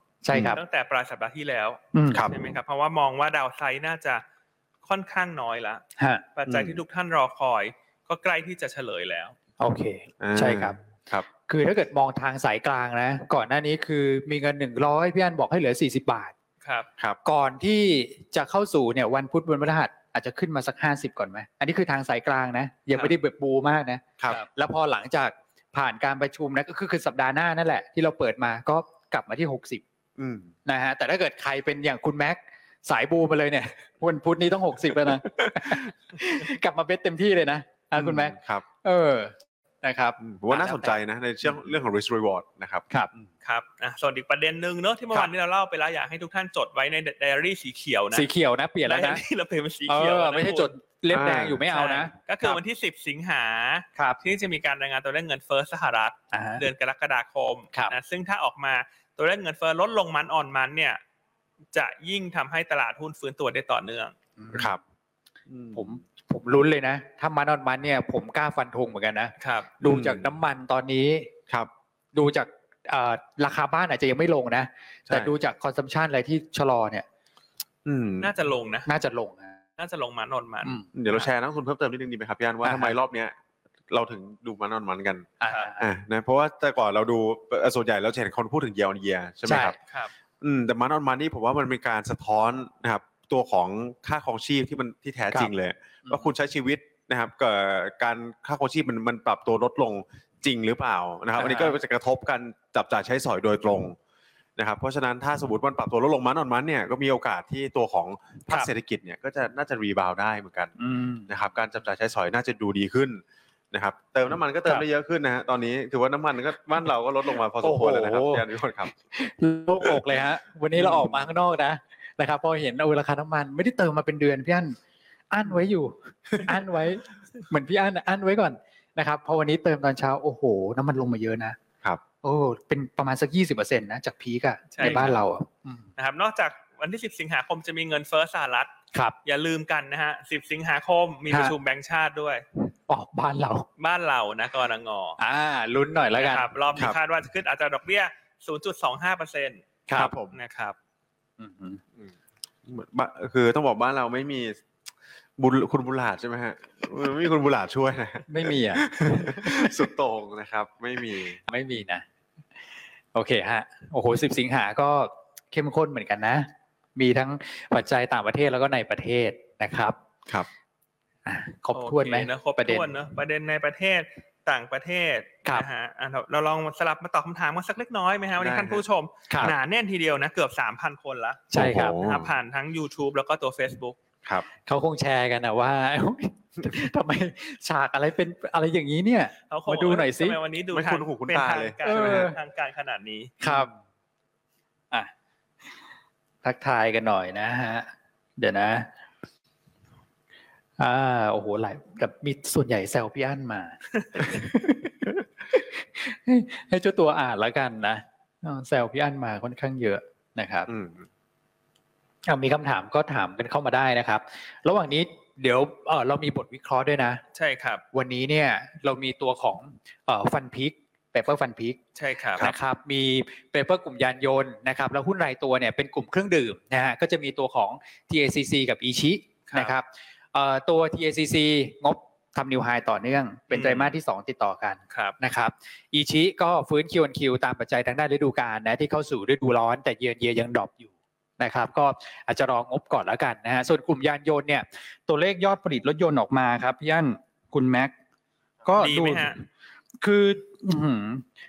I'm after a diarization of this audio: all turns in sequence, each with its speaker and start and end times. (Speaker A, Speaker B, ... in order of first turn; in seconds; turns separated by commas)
Speaker A: 0.2-0.6, Speaker B: 0.3-0.6, Speaker C: 0.5-4.2, Speaker A: 1.9-2.2, Speaker B: 2.1-2.5, Speaker C: 4.8-5.8, Speaker A: 6.0-6.2, Speaker C: 6.4-9.3, Speaker B: 6.5-6.8, Speaker A: 9.6-10.8, Speaker B: 10.2-11.3, Speaker A: 11.4-16.3, Speaker C: 16.6-16.9, Speaker A: 17.2-29.8, Speaker B: 30.2-30.5, Speaker A: 30.7-41.6, Speaker B: 35.4-35.9, Speaker B: 38.0-38.6, Speaker B: 40.2-43.3, Speaker C: 43.4-48.3, Speaker A: 48.1-49.2, Speaker C: 48.9-50.7, Speaker A: 49.9-52.6, Speaker B: 51.1-51.7, Speaker C: 51.7-61.0, Speaker A: 56.3-56.6, Speaker C: 61.7-64.1, Speaker A: 64.4-64.8, Speaker B: 64.5-64.8, Speaker B: 65.5-65.9, Speaker A: 65.7-71.3, Speaker C: 69.4-69.7, Speaker B: 69.8-70.3, Speaker A: 72.1-77.0, Speaker B: 77.8-78.3, Speaker C: 78.2-78.9, Speaker A: 78.9-79.6, Speaker C: 79.8-81.3, Speaker A: 80.6-80.9, Speaker B: 80.9-83.3, Speaker A: 82.6-83.0, Speaker B: 83.9-89.8, Speaker A: 85.4-85.9, Speaker A: 89.5-89.8, Speaker C: 89.8-90.1, Speaker B: 90.4-104.0, Speaker A: 96.0-96.3, Speaker A: 101.4-101.8, Speaker B: 104.6-110.7, Speaker A: 110.8-111.3, Speaker B: 111.3-118.9, Speaker A: 117.6-118.5, Speaker A: 119.1-124.8, Speaker B: 120.8-121.2, Speaker A: 125.3-131.6, Speaker A: 132.2-135.9, Speaker C: 134.7-135.2, Speaker B: 134.8-135.2, Speaker C: 136.0-138.7, Speaker C: 139.2-142.4, Speaker A: 142.7-143.7, Speaker C: 143.8-145.2, Speaker A: 145.2-146.5, Speaker C: 146.2-149.7, Speaker A: 149.9-150.1, Speaker B: 150.0-150.4, Speaker C: 150.3-150.8, Speaker A: 151.4-151.8, Speaker B: 152.7-154.6, Speaker B: 155.4-161.4, Speaker A: 158.3-159.9, Speaker A: 161.5-162.0, Speaker A: 163.1-170.0, Speaker A: 171.3-172.9, Speaker C: 171.7-184.0, Speaker B: 178.4-178.8, Speaker A: 179.3-179.5, Speaker A: 181.5-182.0, Speaker B: 181.6-182.3, Speaker A: 184.7-190.4, Speaker C: 189.5-193.3, Speaker B: 190.7-192.3, Speaker A: 191.8-192.4, Speaker A: 193.4-193.7, Speaker A: 196.4-198.9, Speaker A: 200.8-210.7, Speaker B: 210.7-211.1, Speaker A: 212.3-217.2, Speaker C: 217.3-217.8, Speaker A: 217.9-221.8, Speaker C: 222.0-222.5, Speaker A: 222.4-247.9, Speaker C: 229.5-229.7, Speaker C: 233.5-234.0, Speaker C: 234.9-235.2, Speaker A: 248.7-249.4, Speaker C: 248.8-249.4, Speaker A: 250.0-251.3